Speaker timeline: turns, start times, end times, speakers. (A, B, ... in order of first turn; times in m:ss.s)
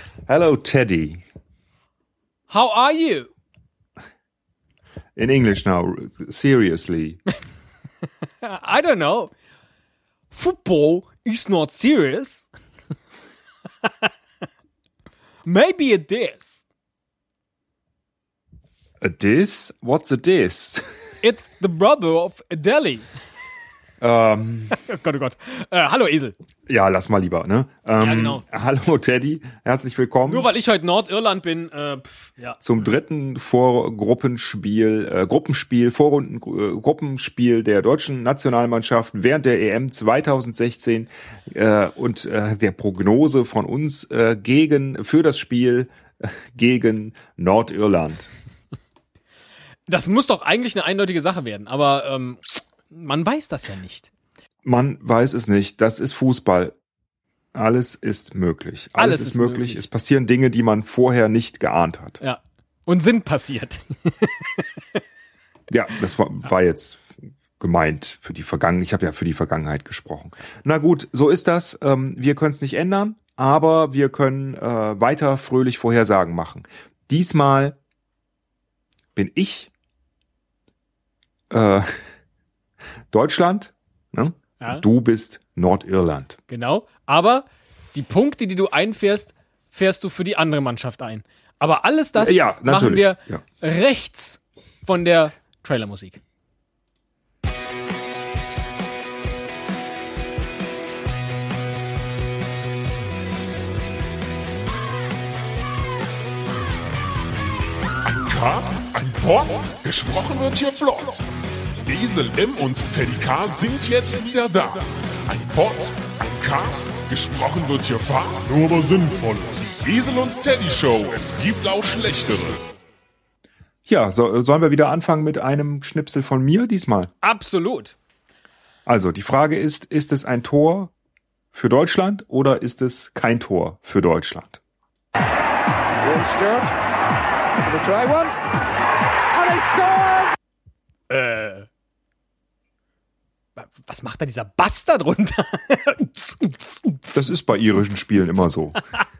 0:00.3-0:01.2 A
0:02.5-0:03.3 B
0:05.2-0:07.2 A
0:08.4-0:09.3 B
0:10.3-0:12.5 B
0:15.4-0:16.6 B
0:19.0-0:20.8 A
0:21.2-0:23.0 B
0:24.0-0:24.8 A
0:24.7-0:26.4 B
0:26.7-0:30.5 A
0:28.0-0:28.4 B
0:30.2-0:32.6 B
0:32.6-0:48.3 A
0:49.9-0:54.1 B
0:54.6-0:56.8 A
0:57.5-1:02.2 A
0:59.0-0:59.8 B
1:02.2-1:04.6 B
1:05.7-1:17.8 A
1:19.1-1:19.7 A
1:21.5-1:21.9 A
1:23.1-1:26.4 A
1:26.5-1:36.2 B
1:32.2-1:33.4 A
1:48.0-1:51.2 C
1:51.8-2:02.6 C
2:03.8-2:07.1 A
2:07.2-2:08.0 B
2:08.8-2:10.9 A
2:11.5-2:14.6 A
2:16.0-2:16.7 D
2:17.7-2:18.3 D
2:19.4-2:20.3 D
2:21.1-2:21.7 B
2:23.6-2:27.3 B
2:27.1-2:28.8 A
2:27.9-2:28.4 B